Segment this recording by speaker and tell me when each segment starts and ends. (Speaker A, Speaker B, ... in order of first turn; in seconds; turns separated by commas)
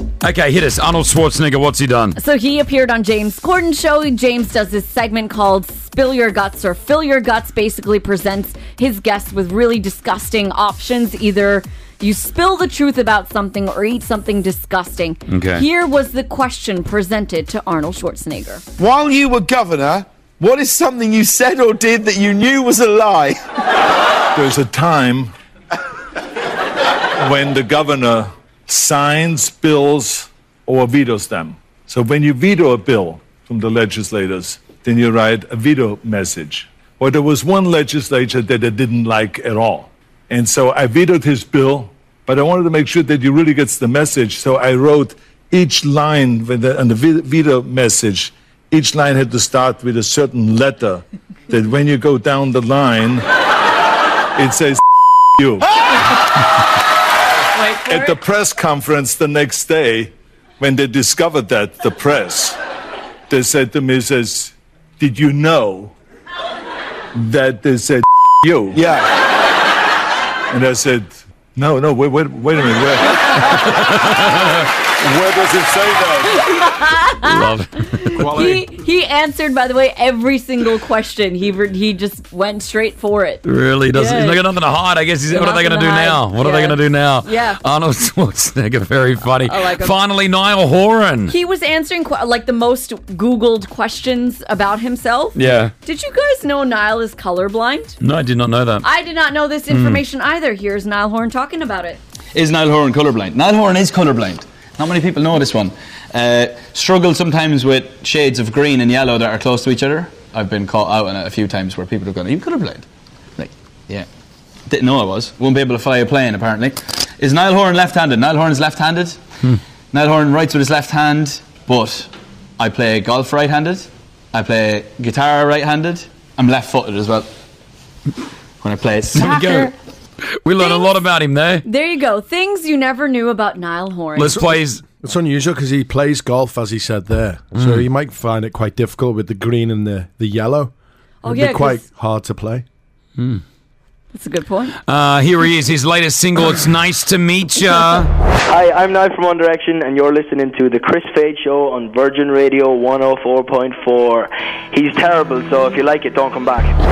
Speaker A: 0.2-2.2, Speaker B: 2.1-18.6, Speaker A: 15.3-15.7, Speaker C: 18.8-23.4, Speaker D: 24.3-25.3, Speaker D: 27.2-53.2, Speaker D: 54.4-54.8, Speaker D: 55.4-55.6, Speaker B: 57.5-58.1, Speaker D: 57.9-62.5, Speaker D: 63.3-65.9, Speaker D: 67.1-68.8, Speaker C: 68.7-69.1, Speaker D: 70.5-73.7, Speaker D: 75.0-76.5, Speaker B: 76.5-84.5, Speaker A: 77.2-78.4, Speaker A: 83.4-91.3, Speaker B: 85.3-87.6, Speaker B: 89.4-89.9, Speaker B: 91.3-98.0, Speaker A: 95.3-95.7, Speaker A: 98.0-98.8, Speaker B: 98.8-102.0, Speaker A: 99.7-100.0, Speaker E: 102.3-112.8, Speaker E: 113.4-114.0, Speaker E: 114.7-119.2, Speaker E: 119.9-127.3, Speaker E: 128.6-129.4, Speaker A: 129.2-129.7, Speaker B: 129.3-129.7, Speaker A: 130.4-131.6, Speaker B: 130.6-131.0, Speaker B: 131.6-134.4, Speaker A: 134.2-134.8, Speaker F: 135.0-140.7, Speaker A: 137.5-137.8, Speaker B: 141.2-141.9, Speaker F: 141.2-142.6, Speaker A: 143.2-143.4, Speaker B: 144.1-144.7, Speaker A: 144.8-148.1, Speaker G: 148.4-156.8